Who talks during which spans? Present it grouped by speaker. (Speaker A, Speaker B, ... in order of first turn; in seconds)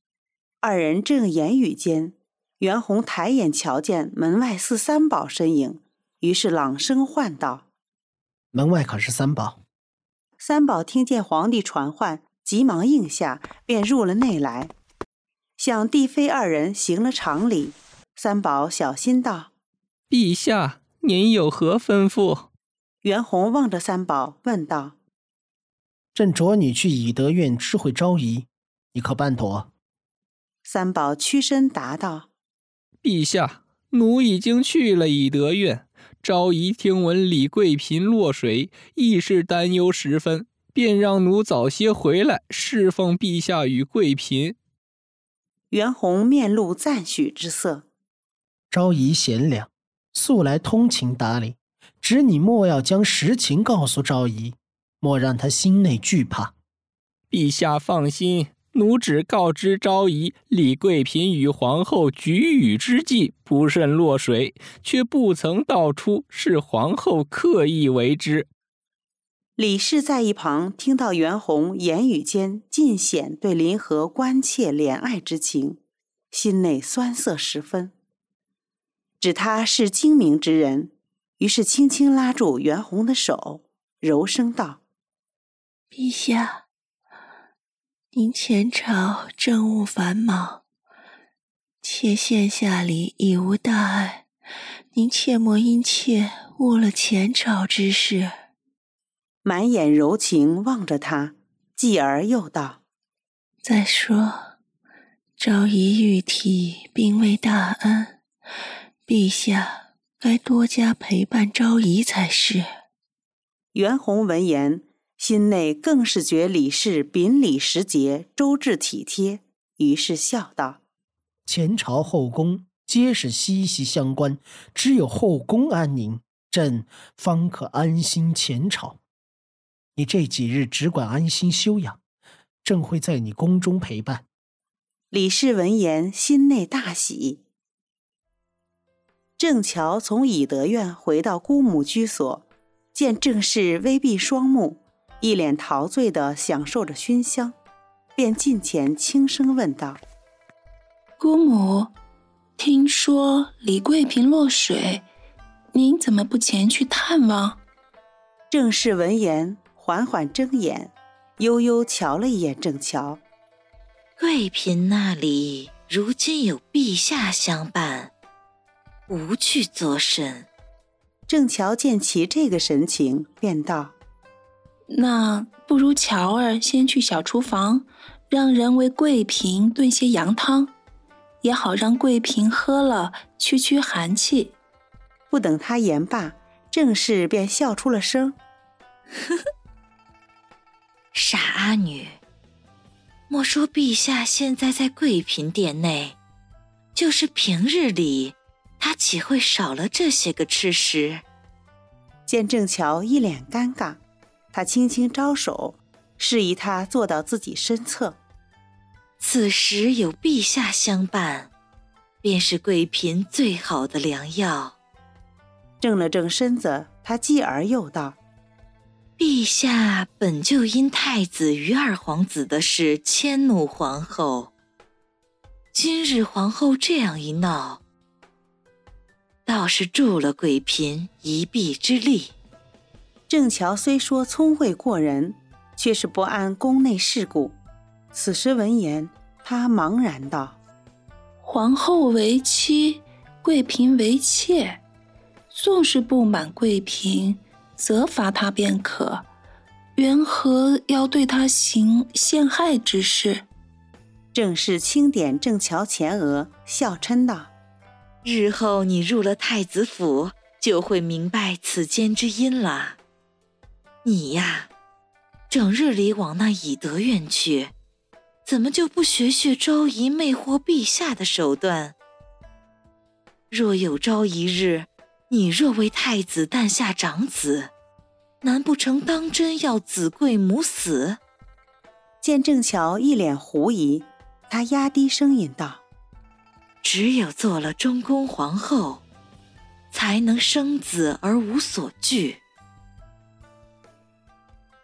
Speaker A: 0.6-7.6, 10.4-14.7, 15.6-19.5, 23.0-24.9, 30.6-32.3, 45.7-47.9, 69.6-75.8, 76.3-77.9, 79.2-84.8, 99.4-102.8, 113.7-120.8, 135.1-137.4, 139.4-147.5, 148.2-150.0, 158.5-163.2, 171.3-173.9, 185.3-188.3, 202.3-204.0, 204.5-208.2, 215.8-218.2, 233.3-237.6, 238.1-240.6, 254.3-257.5, 282.2-285.8
Speaker B: 8.5-9.6, 26.1-29.7, 48.7-56.5, 121.5-129.0, 129.9-132.0, 132.6-134.2
Speaker C: 20.1-22.5, 33.0-44.6, 57.3-68.5
Speaker D: 85.9-86.6, 88.1-90.6, 91.8-94.2, 94.9-98.3, 103.6-104.4, 105.4-108.2, 109.1-112.7
Speaker E: 151.2-151.9, 152.6-155.0, 155.7-157.6, 174.9-180.7, 181.4-184.5, 241.4-244.8, 245.5-249.3, 249.9-253.4
Speaker F: 164.2-168.1, 169.1-170.5, 191.1-192.2, 193.3-196.2, 196.9-201.2, 209.2-211.5, 212.2-214.7, 219.2-224.5, 225.7-227.8, 229.4-232.3, 258.2-263.0, 264.0-264.7, 265.5-267.7, 268.4-271.9, 273.5-277.7, 278.4-281.2, 286.8-289.0, 289.9-292.4